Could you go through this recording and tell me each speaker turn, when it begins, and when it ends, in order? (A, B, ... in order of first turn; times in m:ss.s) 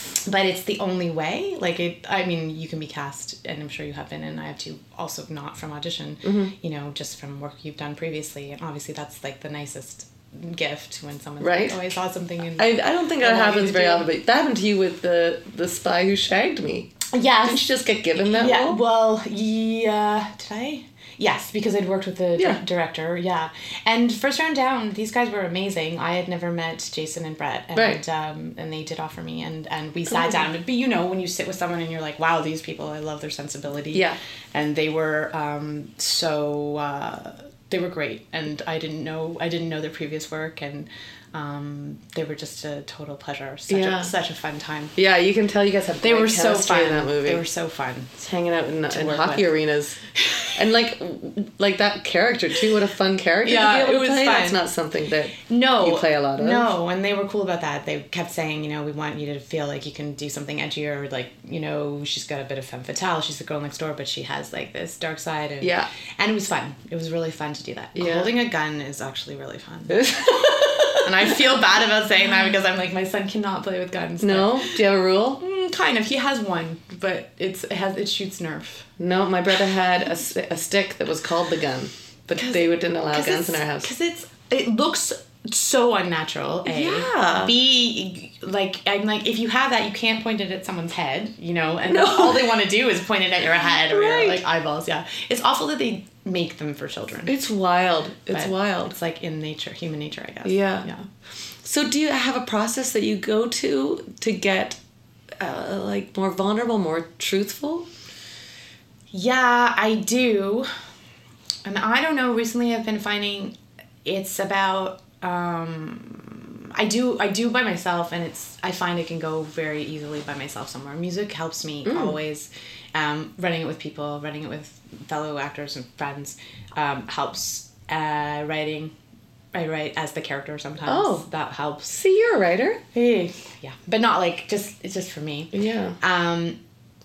0:00.2-0:14.1 A
0:06.2-0:06.5 B
0:11.4-0:11.8 B
0:12.6-0:16.9 B
0:17.1-0:17.7 A
0:17.4-0:18.8 B
0:18.2-0:45.0 A
0:27.8-0:28.0 B
0:30.1-0:30.4 B
0:43.7-0:44.1 B
0:45.0-0:47.4 B
0:46.0-0:48.2 A
0:48.2-0:50.0 B
0:48.9-0:49.5 A
0:50.2-0:50.6 A
0:50.6-0:56.7 B
0:53.4-0:54.6 A
0:55.5-1:14.8 A
1:05.6-1:05.9 B
1:08.0-1:08.3 B
1:09.9-1:11.4 B
1:14.2-1:15.4 B
1:15.4-1:18.9 A
1:19.0-1:23.9 B
1:22.4-1:37.4 A
1:26.7-1:27.5 B
1:31.9-1:32.6 B
1:33.6-1:34.4 B
1:37.3-1:39.0 B
1:38.3-1:41.1 A
1:40.4-1:40.9 B
1:41.6-1:44.8 B
1:45.4-1:47.9 B
1:49.1-1:50.7 A
1:51.6-2:08.9 A
2:01.8-2:02.2 B
2:09.5-2:12.0 A
2:10.9-2:11.2 B
2:11.9-2:12.8 B
2:12.9-2:16.6 A
2:15.5-2:16.0 B